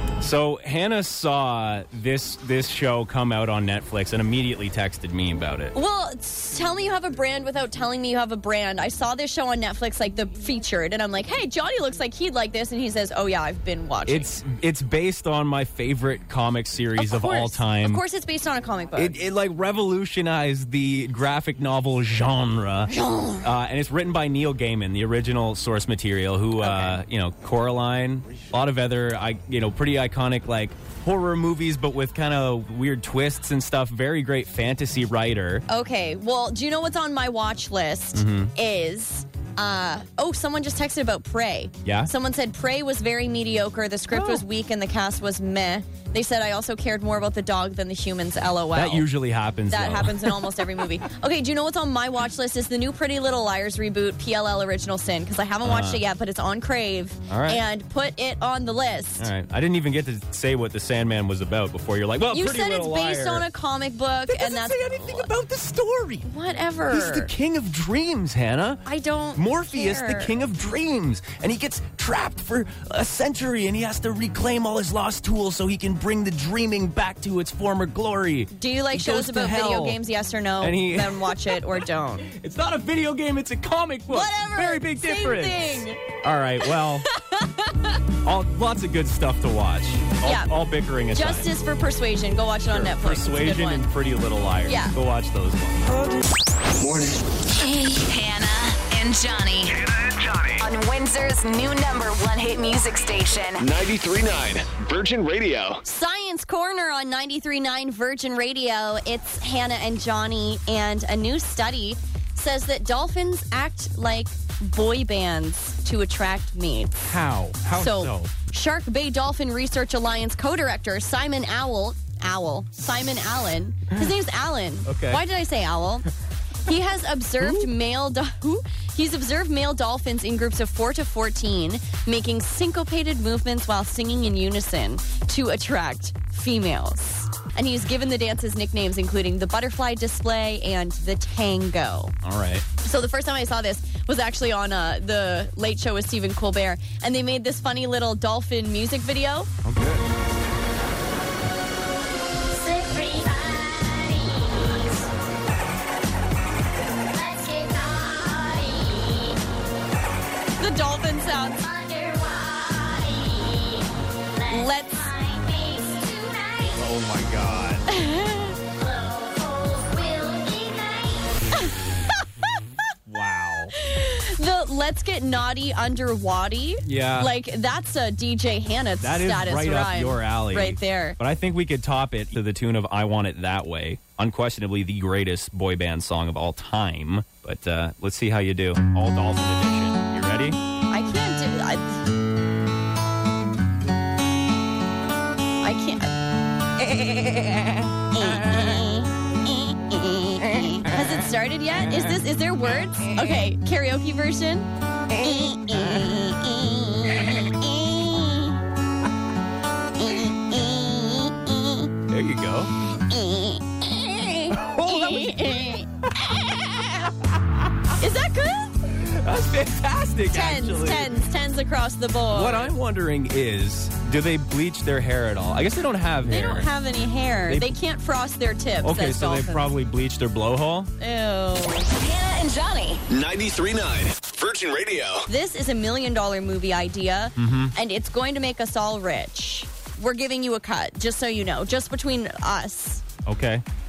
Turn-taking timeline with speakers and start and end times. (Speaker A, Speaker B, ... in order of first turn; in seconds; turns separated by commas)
Speaker A: 0.2-5.7, Speaker B: 5.8-14.3, Speaker A: 14.1-18.0, Speaker B: 17.0-19.2, Speaker A: 19.0-35.6, Speaker B: 22.9-23.5, Speaker B: 26.6-27.0, Speaker B: 35.7-49.1, Speaker A: 38.1-38.5, Speaker A: 41.8-42.1, Speaker A: 44.1-44.4, Speaker A: 48.7-50.5, Speaker B: 49.7-59.3, Speaker A: 55.6-56.0, Speaker A: 57.3-57.6, Speaker A: 59.2-63.5, Speaker B: 62.3-65.3, Speaker A: 64.3-66.3, Speaker B: 66.2-67.3, Speaker A: 66.9-68.8, Speaker B: 68.9-70.3, Speaker A: 69.4-80.0, Speaker B: 78.5-82.3, Speaker A: 80.6-81.6, Speaker A: 82.2-87.1, Speaker B: 84.1-86.0, Speaker B: 87.1-88.0, Speaker A: 88.2-91.5, Speaker B: 90.2-90.5, Speaker B: 91.1-93.9, Speaker A: 92.7-95.8, Speaker B: 94.7-94.9, Speaker C: 97.6-99.8, Speaker D: 99.7-100.7, Speaker C: 100.6-103.6, Speaker D: 103.6-105.8, Speaker B: 105.8-117.0, Speaker A: 117.0-118.3, Speaker B: 117.7-126.1, Speaker A: 124.9-125.2, Speaker B: 126.7-142.1, Speaker A: 127.4-127.7, Speaker A: 142.2-142.7, Speaker B: 142.8-149.5, Speaker A: 149.6-150.1, Speaker B: 160.6-161.6, Speaker B: 164.5-165.1, Speaker A: 166.7-167.9, Speaker B: 167.9-168.6, Speaker A: 173.1-173.7, Speaker B: 173.8-181.2, Speaker A: 176.8-177.3, Speaker A: 179.0-190.6, Speaker B: 190.9-192.0, Speaker B: 195.6-196.1, Speaker B: 196.8-197.4, Speaker B: 198.1-208.6, Speaker B: 210.0-211.9, Speaker A: 212.1-212.7, Speaker B: 213.1-215.9, Speaker A: 214.5-216.7, Speaker B: 218.0-218.8, Speaker A: 218.9-221.1, Speaker B: 220.3-222.7, Speaker A: 222.3-226.7, Speaker B: 226.3-229.7, Speaker A: 228.8-230.9, Speaker B: 231.0-231.9, Speaker C: 232.0-233.0, Speaker D: 233.1-235.3, Speaker B: 235.3-243.0, Speaker A: 237.4-237.7, Speaker A: 243.3-243.6